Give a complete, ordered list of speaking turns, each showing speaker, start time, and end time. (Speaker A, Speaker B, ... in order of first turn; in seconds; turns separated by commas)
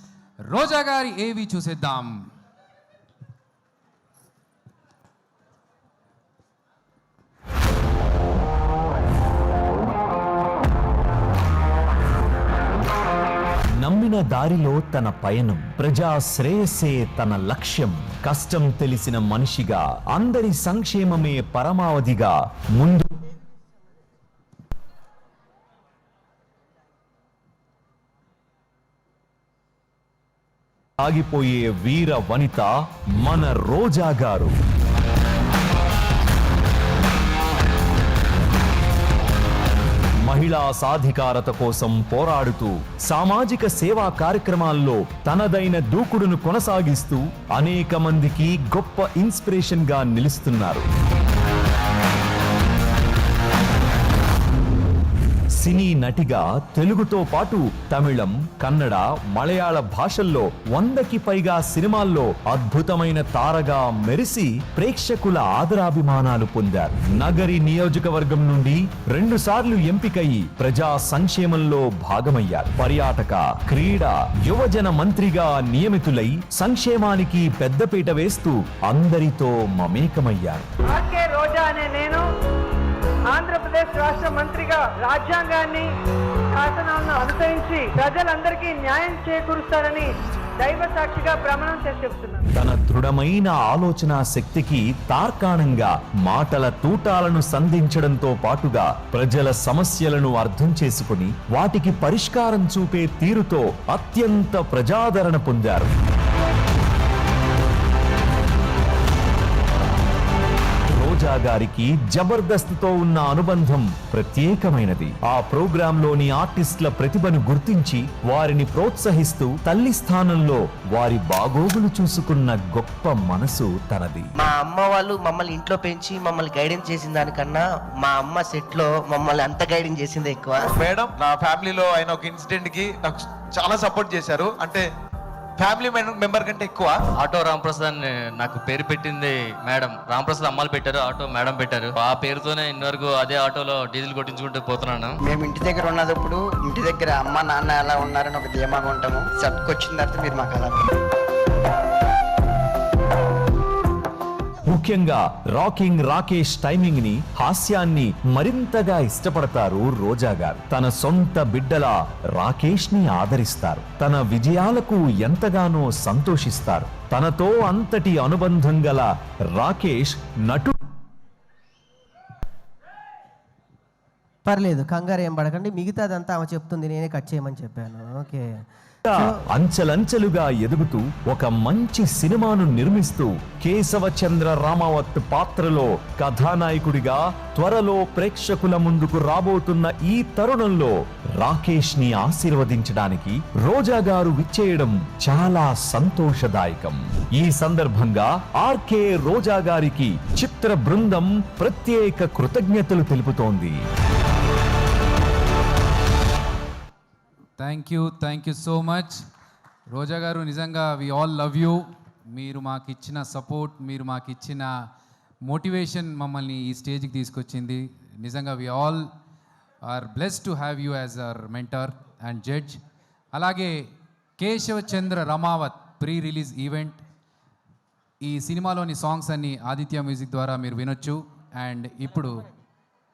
Speaker A: 0.5-2.2, Speaker B: 13.8-23.1, Speaker B: 31.0-34.5, Speaker B: 40.2-50.9, Speaker B: 55.6-80.7, Speaker C: 80.9-82.2, Speaker C: 83.3-85.9, Speaker C: 86.5-92.5, Speaker B: 92.6-105.9, Speaker B: 110.9-124.3, Speaker D: 124.4-130.7, Speaker E: 130.8-134.9, Speaker E: 135.6-137.0, Speaker F: 137.2-145.2, Speaker G: 145.2-150.8, Speaker B: 154.7-170.8, Speaker H: 174.5-178.5, Speaker B: 179.1-203.8, Speaker A: 207.6-209.2, Speaker A: 209.9-214.7, Speaker A: 215.4-219.1, Speaker A: 219.8-222.8, Speaker A: 223.3-227.0, Speaker A: 228.2-232.4